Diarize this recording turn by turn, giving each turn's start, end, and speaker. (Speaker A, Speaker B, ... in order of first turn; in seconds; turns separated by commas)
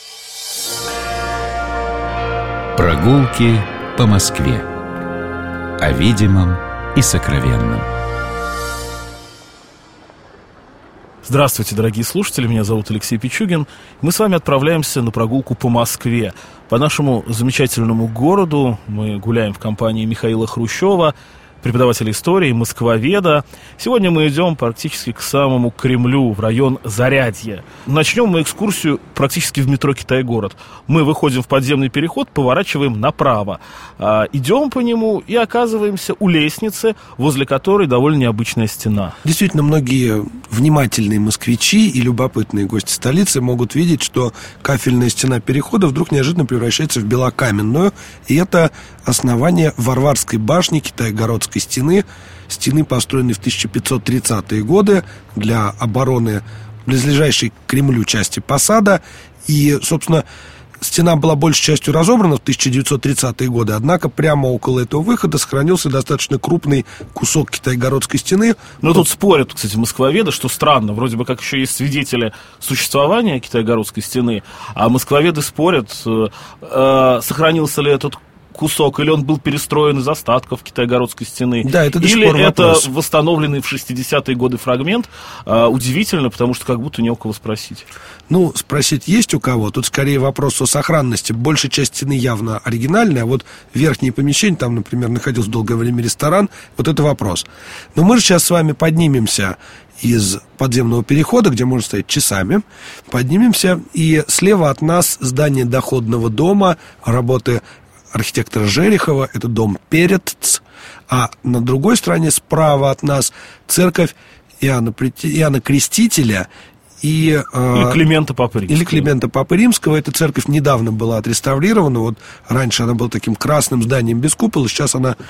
Speaker A: 2.8-4.7, Speaker A: 5.8-7.9, Speaker B: 11.2-39.1, Speaker C: 39.2-60.2, Speaker C: 60.8-69.0, Speaker B: 68.8-87.8, Speaker C: 81.6-82.9, Speaker C: 88.3-116.5, Speaker C: 117.0-118.0, Speaker B: 117.7-119.1, Speaker C: 118.7-125.2